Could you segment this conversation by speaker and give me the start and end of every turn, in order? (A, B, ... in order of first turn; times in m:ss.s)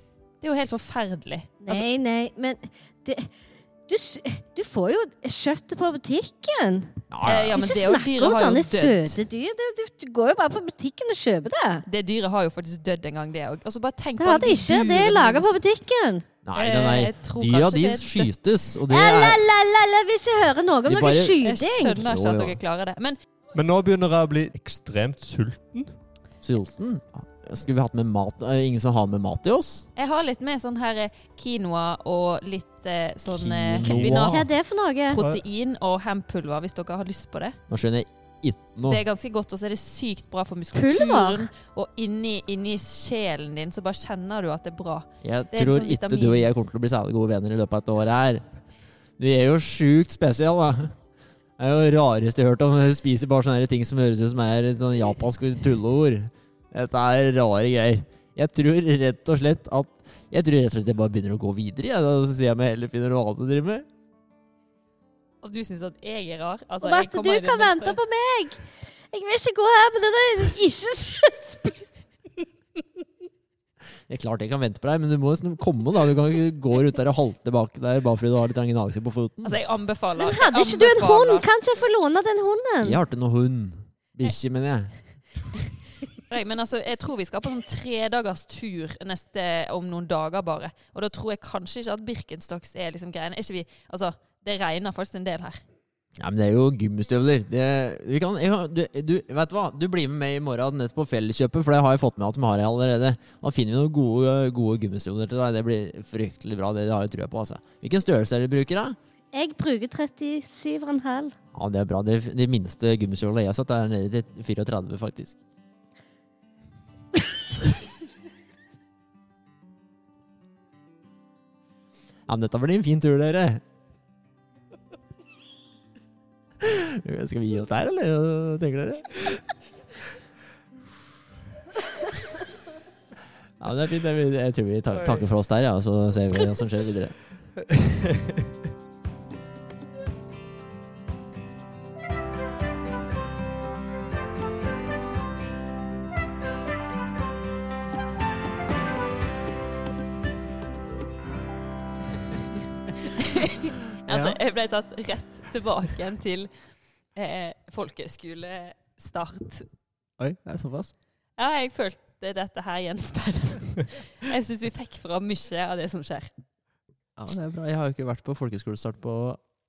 0:00.4-0:01.8 A
0:01.6-0:11.8 B
0:07.1-0:07.6 C
0:07.2-0:09.2 A
0:11.9-0:15.5 A
0:14.2-0:16.2 B
0:16.4-0:19.4 C
0:16.5-0:18.3 A
0:18.9-0:22.0 B
0:20.8-0:22.6 C
0:21.4-0:23.2 A
0:23.5-0:26.0 D
0:26.4-0:29.9 C
0:30.0-0:34.5 A
0:33.2-0:34.3 C
0:33.7-0:34.4 D
0:34.3-0:35.2 B
0:35.1-0:37.6 A
0:35.2-0:35.4 D
0:37.7-0:39.0 C
0:38.8-0:46.5 A
0:40.7-0:41.5 B
0:45.2-0:48.5 C
0:49.2-0:51.0 C
0:51.6-1:03.9 C
1:05.4-1:08.0 A
1:06.8-1:11.8 B
1:14.1-1:19.6 C
1:19.4-1:21.4 A
1:20.2-1:23.0 B
1:22.8-1:24.9 C
1:26.3-1:35.6 A
1:36.2-1:49.0 C
1:49.3-1:51.3 B
1:51.5-1:55.4 C
2:02.3-2:03.6 C
2:06.6-2:09.3 C
2:13.6-2:17.5 C
2:33.1-2:36.5 A
2:34.1-2:34.4 C
2:37.1-2:39.7 A
2:40.2-2:40.9 C
2:41.4-2:46.4 A
2:47.2-2:49.4 C